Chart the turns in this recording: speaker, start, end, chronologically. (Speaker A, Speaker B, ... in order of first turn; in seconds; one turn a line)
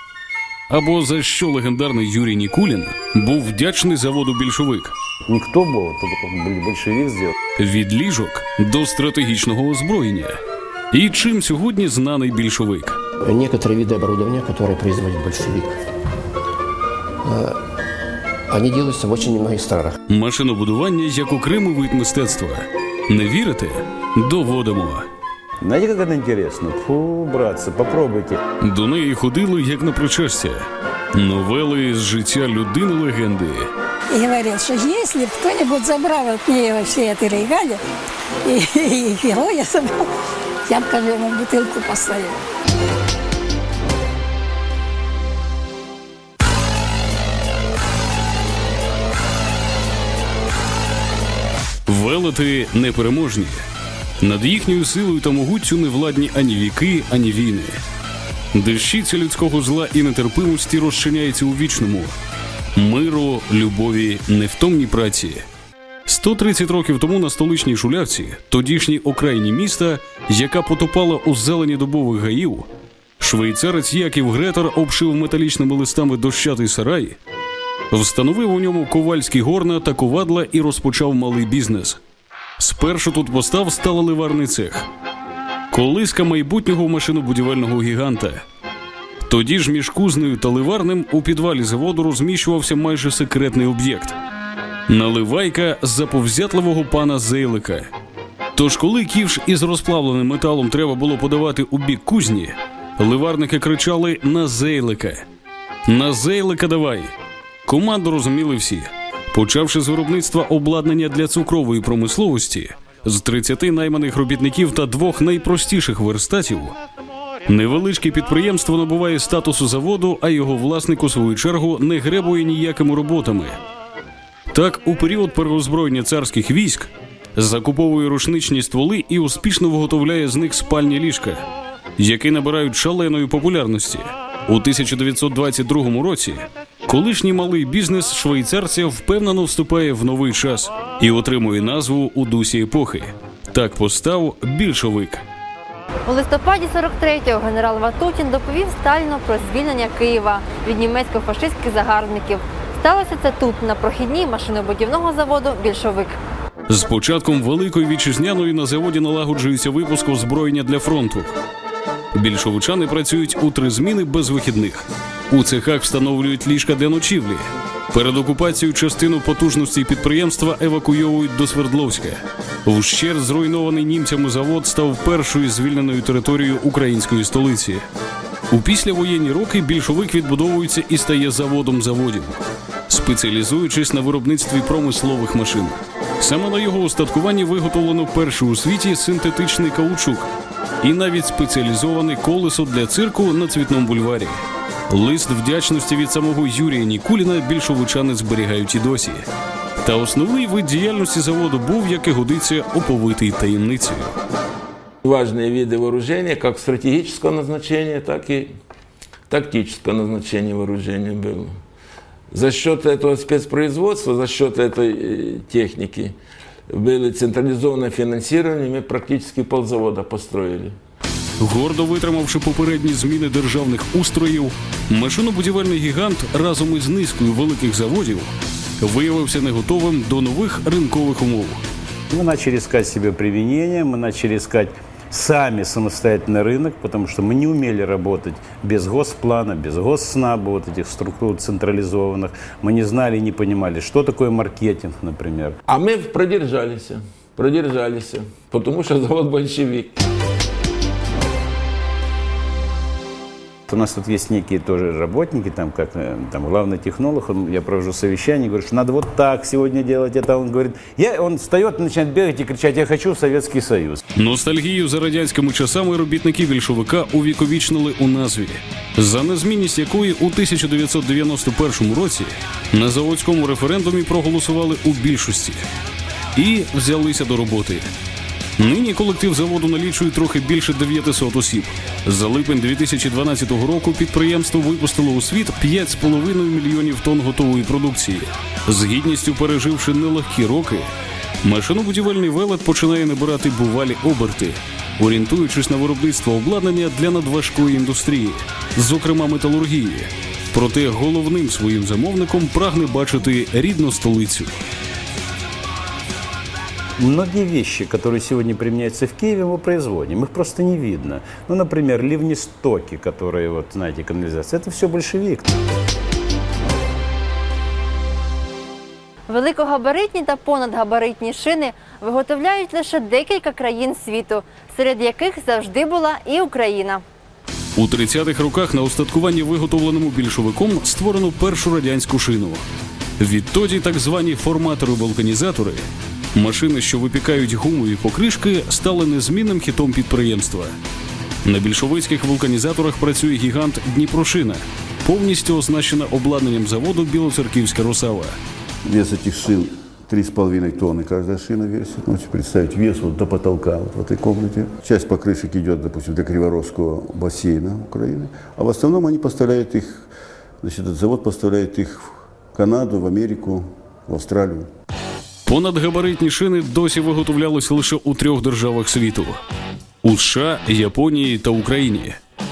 Speaker A: 0.7-4.9
Speaker B: 5.2-7.3
Speaker A: 7.6-10.4
Speaker A: 10.9-13.0
Speaker C: 13.2-15.8
Speaker C: 17.2-17.6
Speaker C: 18.5-19.9
Speaker A: 20.1-25.1
Speaker B: 25.6-28.4
Speaker A: 28.6-33.7
Speaker D: 34.1-37.8
Speaker D: 38.4-40.1
Speaker D: 40.6-42.4
Speaker A: 51.9-53.6
Speaker A: 54.2-57.8
Speaker A: 58.5-62.1
Speaker A: 62.8-65.5
Speaker A: 66.0-72.7
Speaker A: 73.2-77.2
Speaker A: 77.9-82.0
Speaker A: 82.6-84.9
Speaker A: 85.7-88.4
Speaker A: 89.2-94.2
Speaker A: 94.9-97.9
Speaker A: 98.5-105.2
Speaker A: 105.8-107.1
Speaker A: 107.7-116.8
Speaker A: 117.5-123.6
Speaker A: 124.5-131.4
Speaker A: 132.0-145.2
Speaker E: 146.1-156.1
Speaker A: 156.7-161.4
Speaker A: 162.1-177.8
Speaker A: 178.5-190.3
Speaker A: 190.8-199.3
Speaker A: 199.8-204.2
Speaker F: 205.0-208.5
Speaker F: 209.3-211.6
Speaker F: 212.3-216.1
Speaker F: 216.7-220.8
Speaker A: 221.4-231.6
Speaker B: 232.1-245.6
Speaker F: 245.7-249.9
Speaker B: 253.7-264.0
Speaker A: 264.1-275.6
Speaker A: 276.4-277.9
Speaker A: 278.6-290.9
Speaker A: 291.4-304.5
Speaker B: 307.0-315.5
Speaker E: 319.3-327.0
Speaker A: 327.8-332.6
Speaker A: 333.2-340.7
Speaker A: 341.4-348.4
Speaker G: 348.8-360.1
Speaker G: 360.6-364.7
Speaker A: 365.4-369.4
Speaker A: 370.0-372.2